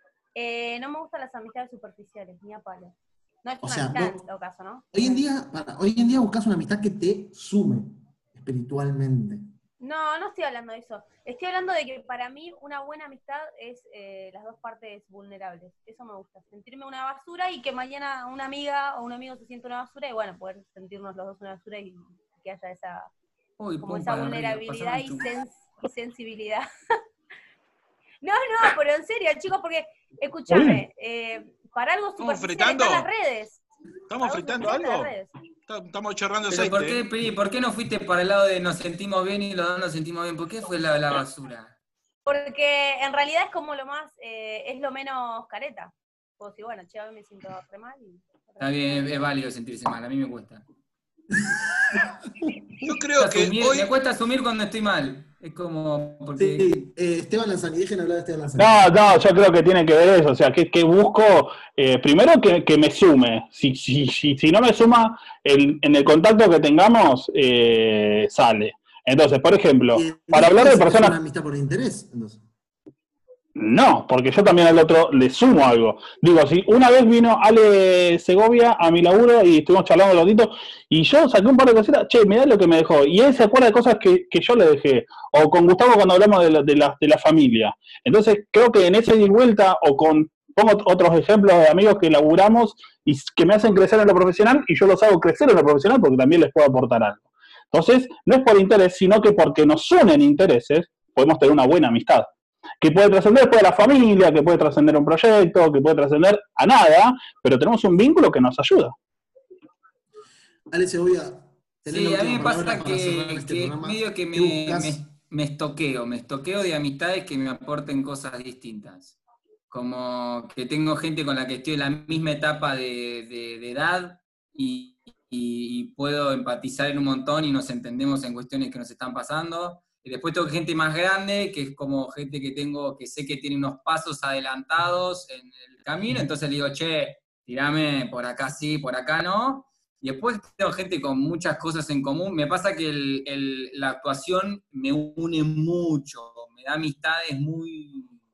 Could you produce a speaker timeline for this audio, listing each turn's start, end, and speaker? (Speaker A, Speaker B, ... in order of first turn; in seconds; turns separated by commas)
Speaker A: 0.3-5.2, Speaker B: 3.6-4.2, Speaker B: 4.9-9.5, Speaker A: 9.8-23.1, Speaker C: 23.6-25.3, Speaker A: 23.8-26.6, Speaker A: 28.2-33.6, Speaker D: 32.2-33.1, Speaker D: 34.1-35.1, Speaker A: 34.2-35.3, Speaker D: 35.7-37.0, Speaker C: 36.5-41.7, Speaker A: 42.2-49.2, Speaker C: 48.6-50.6, Speaker B: 51.4-52.9, Speaker D: 52.8-53.9, Speaker C: 53.2-56.7, Speaker B: 56.4-58.9, Speaker E: 58.6-71.1, Speaker B: 69.9-72.4, Speaker E: 73.5-102.3, Speaker E: 102.8-108.9, Speaker B: 110.7-115.0, Speaker C: 111.8-119.2, Speaker C: 119.7-148.2